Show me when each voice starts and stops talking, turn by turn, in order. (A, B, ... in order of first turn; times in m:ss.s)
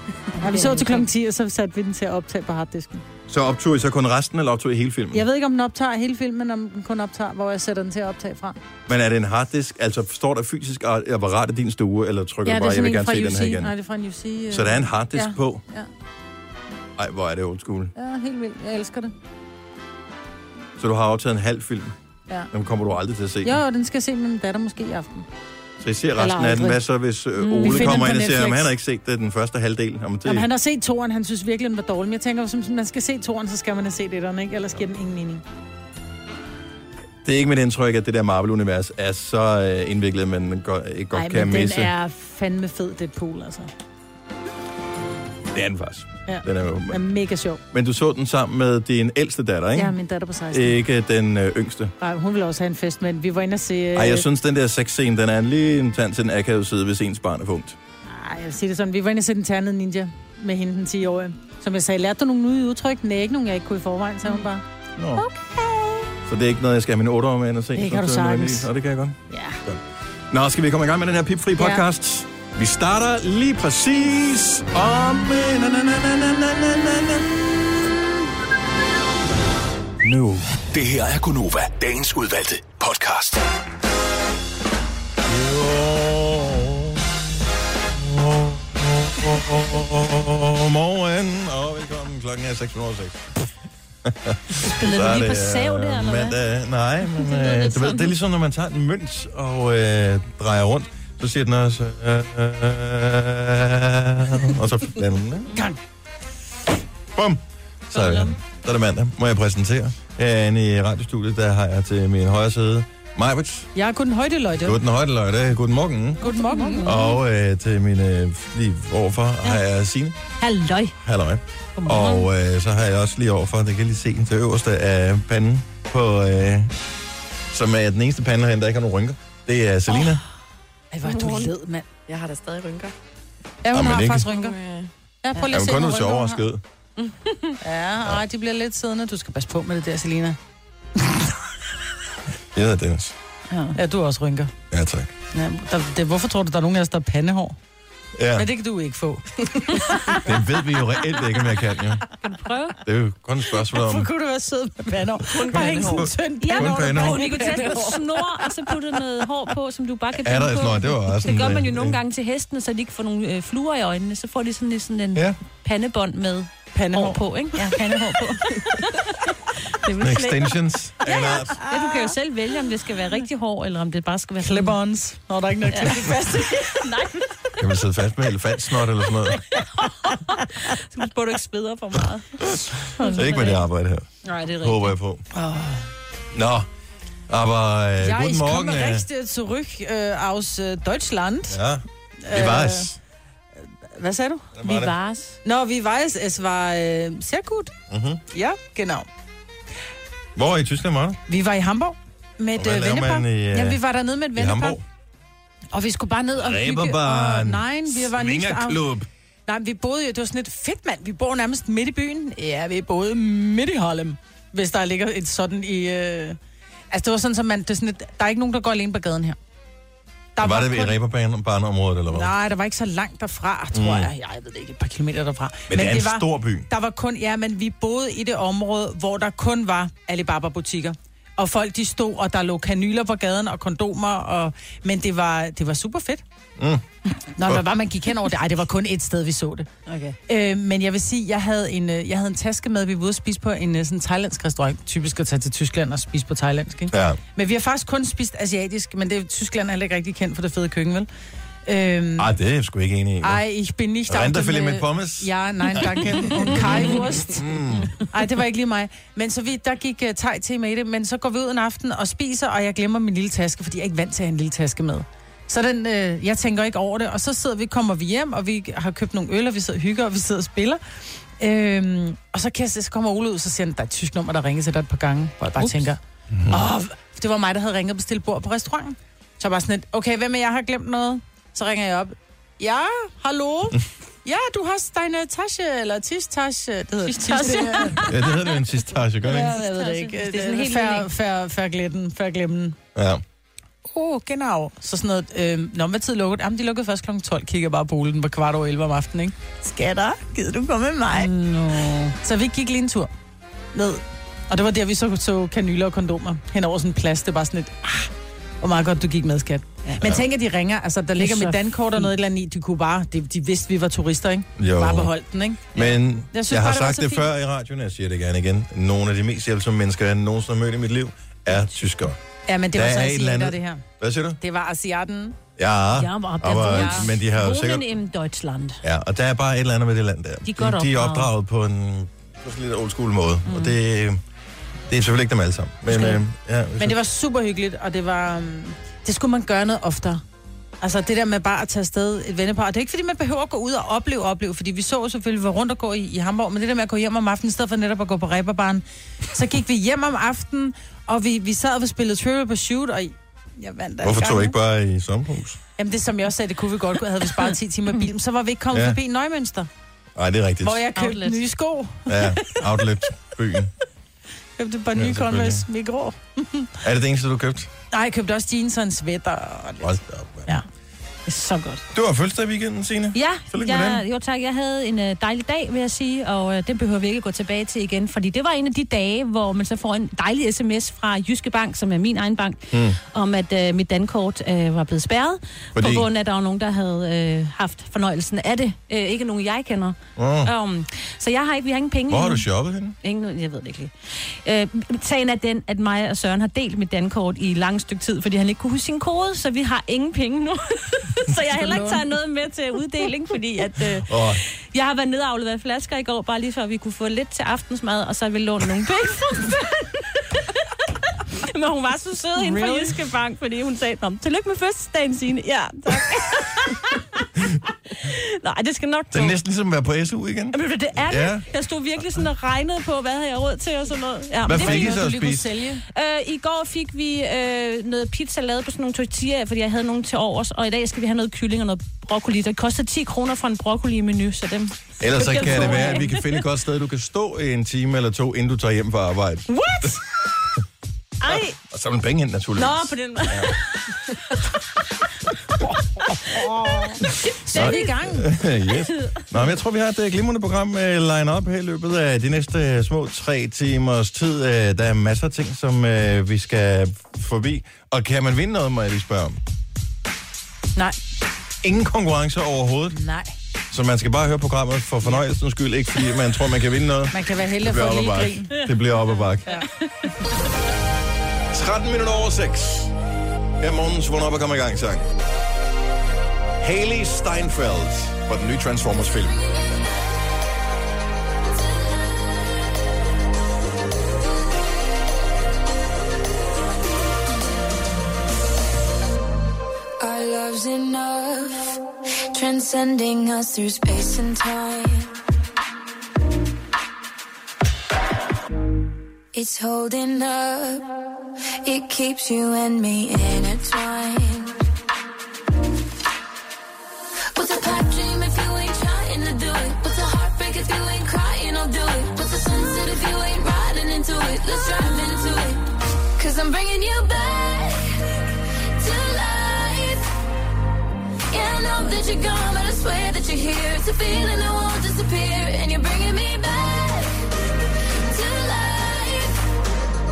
0:00.3-0:03.0 A
0:00.4-0:01.1 B
0:03.3-0:05.3 C
0:05.1-0:08.6 A
0:08.9-0:13.7 C
0:12.4-0:15.9 A
0:14.5-0:15.6 C
0:17.0-0:17.9 C
0:18.0-0:19.1 A
0:20.8-0:22.0 C
0:22.5-0:23.6 C
0:23.4-0:25.3 A
0:25.8-0:30.5 C
0:26.2-0:26.8 A
0:27.4-0:28.2 B
0:27.6-0:28.7 A
0:30.2-0:35.4 A
0:37.2-0:41.9 C
0:41.1-0:43.7 A
0:45.5-0:47.0 C
0:46.3-0:47.6 A
0:47.7-0:50.0 C
0:49.7-0:50.8 A
0:50.5-0:51.9 C
0:52.0-0:54.3 A
0:54.0-0:57.8 C
0:58.0-1:04.6 A
1:05.0-1:05.2 C
1:05.2-1:06.1 A
1:06.3-1:17.4 C
1:07.8-1:08.7 A
1:09.3-1:09.6 A
1:20.0-1:20.5 C
1:20.7-1:23.5 D
1:25.3-1:27.2 C
1:27.9-1:33.3 C
1:34.0-1:45.5 C
1:34.6-1:36.4 B
1:37.1-1:38.1 B
1:47.1-1:53.7 C
1:47.9-1:48.3 A
1:53.8-1:54.8 A
1:54.6-1:56.3 C
1:56.2-1:56.9 A
1:56.3-1:57.2 B
1:56.8-2:00.2 C
2:00.4-2:00.9 B
2:01.0-2:06.7 C
2:01.8-2:02.3 B
2:07.5-2:10.2 C
2:10.9-2:11.9 A
2:11.0-2:11.5 E
2:12.1-2:12.9 E
2:13.6-2:14.6 A
2:13.7-2:14.3 C
2:14.3-2:14.9 E
2:15.2-2:16.4 A
2:15.5-2:16.6 C
2:17.6-2:20.4 A
2:22.5-2:23.2 C
2:23.5-2:23.8 B
2:23.8-2:24.5 A
2:24.7-2:25.1 C
2:25.3-2:27.6 A
2:28.2-2:28.5 C
2:28.3-2:30.3 A
2:30.1-2:32.0 C
2:32.2-2:32.8 B
2:32.8-2:34.1 C
2:33.7-2:38.5 A
2:35.3-2:36.1 E
2:35.4-2:37.4 C
2:36.4-2:54.8 B
2:37.4-2:37.8 E
2:40.2-2:42.0 C
2:46.8-2:48.2 A
2:50.0-2:51.6 C
2:51.2-2:52.1 A
2:54.4-2:56.9 A
2:55.7-2:56.0 B
2:56.6-2:57.6 B
2:57.6-2:59.4 C
2:59.5-3:03.6 B
3:02.5-3:04.1 C
3:04.2-3:05.0 B
3:04.6-3:05.2 C
3:05.3-3:05.9 A
3:06.3-3:06.7 C
3:07.3-3:09.1 C
3:08.0-3:11.6 A
3:11.5-3:13.0 C
3:12.2-3:12.9 A
3:13.8-3:14.5 A
3:14.5-3:15.0 C
3:14.6-3:15.4 B
3:15.4-3:17.7 A
3:17.9-3:18.2 C
3:18.3-3:19.1 A
3:20.4-3:21.2 C
3:21.3-3:24.8 A
3:22.6-3:23.8 C
3:24.4-3:24.8 C
3:25.7-3:28.8 A
3:26.4-3:29.1 C
3:29.5-3:36.4 A
3:36.9-3:39.4 A
3:40.4-3:41.0 A
3:40.4-3:42.4 C
3:42.1-3:56.2 A
3:43.7-3:44.1 C
3:45.7-3:46.7 C
3:56.6-3:56.8 C
3:57.2-4:11.1 A
3:59.9-4:00.2 B
4:06.9-4:07.2 C
4:11.7-4:12.3 A
4:12.2-4:13.4 C
4:13.2-4:30.8 A
4:14.1-4:17.9 C
4:31.4-4:48.1 A
4:35.6-4:35.9 B
4:36.3-4:36.7 C
4:47.1-4:48.3 B
4:48.0-4:49.6 C
4:49.2-4:52.8 A
4:49.4-4:51.1 B
4:53.0-4:53.2 C
4:53.9-5:01.3 A
5:01.2-5:02.2 B
5:02.2-5:03.1 A
5:03.7-5:17.3 A
5:11.2-5:12.1 B
5:14.6-5:15.1 C
5:15.7-5:22.2 C
5:22.5-5:23.8 A
5:22.7-5:24.4 C
5:24.4-5:25.4 A
5:25.6-5:27.9 C
5:26.0-5:28.8 B
5:26.7-5:27.1 A
5:28.8-5:34.2 C
5:30.5-5:31.3 B
5:34.9-5:37.0 C
5:36.8-5:40.2 A
5:40.8-5:54.5 A
5:54.0-5:55.6 C
5:55.8-5:59.7 A
5:58.7-5:59.0 C
6:00.2-6:00.9 C
6:00.6-6:02.6 A
6:01.0-6:01.4 B
6:02.1-6:03.7 C
6:04.6-6:06.7 A
6:05.0-6:05.6 C
6:06.8-6:07.7 C
6:07.9-6:10.6 A
6:09.8-6:10.5 C
6:11.3-6:11.8 B
6:11.9-6:14.0 C
6:13.1-6:32.5 B
6:22.7-6:23.0 C
6:25.8-6:26.1 C
6:30.2-6:30.5 C
6:32.1-6:33.0 C
6:33.0-6:50.6 B
6:41.6-6:41.9 A
6:44.0-6:44.4 C
6:51.1-6:57.3 B
6:52.4-6:52.9 A
6:57.9-6:59.4 B
6:59.1-7:01.5 C
7:00.5-7:05.0 B
7:04.4-7:05.5 C
7:04.5-7:05.8 A
7:05.9-7:16.4 B
7:15.0-7:19.9 C
7:19.5-7:20.0 B
7:21.2-7:21.6 B
7:21.3-7:23.6 C
7:22.6-7:24.4 B
7:26.2-7:28.3 A
7:26.3-7:27.0 B
7:27.5-7:39.4 C
7:27.5-7:27.9 B
7:28.7-7:29.3 B
7:41.6-7:43.0 C
7:42.9-7:43.3 A
7:43.7-7:49.6 C
7:47.1-7:48.6 A
7:51.5-7:52.9 C
7:53.6-7:55.1 C
7:56.6-7:59.4 C
8:10.0-8:15.2 F
8:19.3-8:24.6 F
8:27.3-8:40.1 F
8:41.3-8:49.5 F